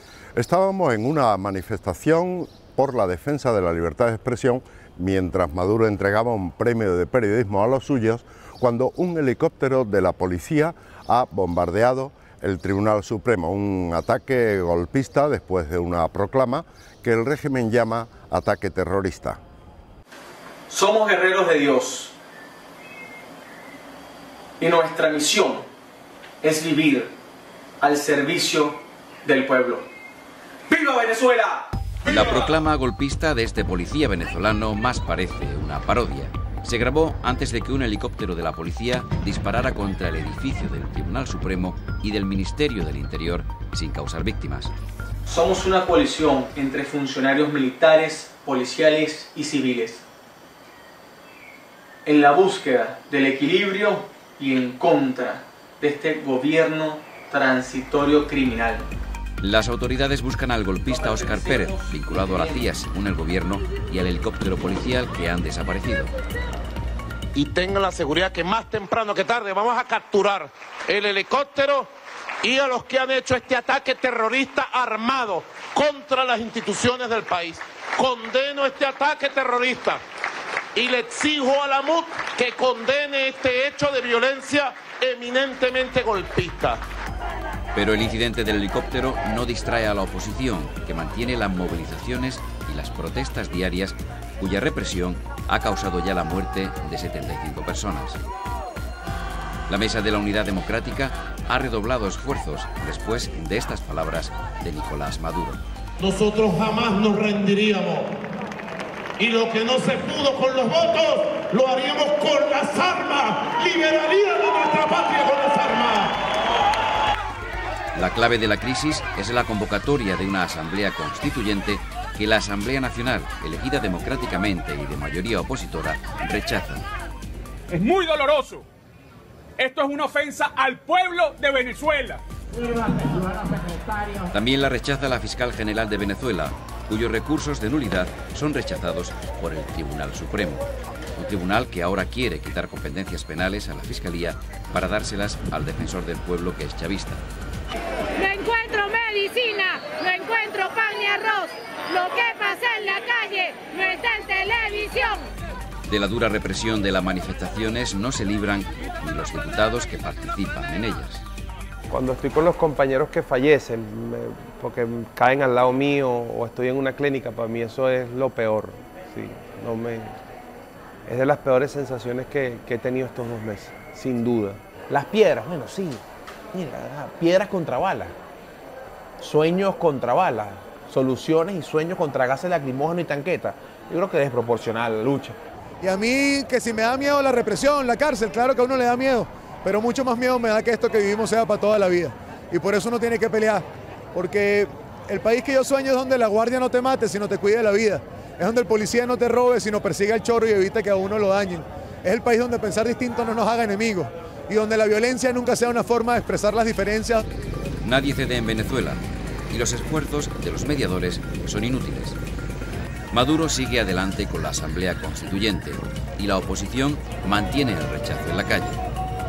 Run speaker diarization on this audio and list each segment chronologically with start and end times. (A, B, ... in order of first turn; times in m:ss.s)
0:00.4-0:19.4 A
0:20.7-0:22.1 B
0:21.8-0:22.0 C
0:24.6-0:25.6 C
0:24.6-0:25.4 B
0:26.4-0:27.1 C
0:26.6-0:26.9 B
0:27.8-0:28.7 C
0:28.0-0:28.3 B
0:29.3-0:29.8 C
0:30.7-0:31.5 C
0:30.7-0:31.4 B
0:32.1-0:44.7 D
0:45.3-0:50.0 C
0:52.1-0:58.8 C
0:53.3-0:53.6 B
0:54.2-0:55.2 B
0:56.0-0:58.8 B
0:59.4-1:06.1 D
1:07.3-1:11.9 E
1:12.4-1:20.0 E
1:20.8-1:26.8 E
1:27.7-1:38.2 D
1:39.7-1:45.6 D
1:46.0-1:48.2 E
1:49.2-1:56.2 E
1:58.0-2:06.8 D
2:07.7-2:08.7 F
2:09.6-2:13.2 F
2:14.3-2:20.6 D
2:21.2-2:27.2 D
2:28.2-2:35.2 B
2:35.9-2:41.2 D
2:41.9-2:50.2 G
2:51.1-2:58.2 G
2:59.2-3:05.4 G
3:05.8-3:27.2 H
3:27.8-3:32.2 D
3:33.1-3:38.8 D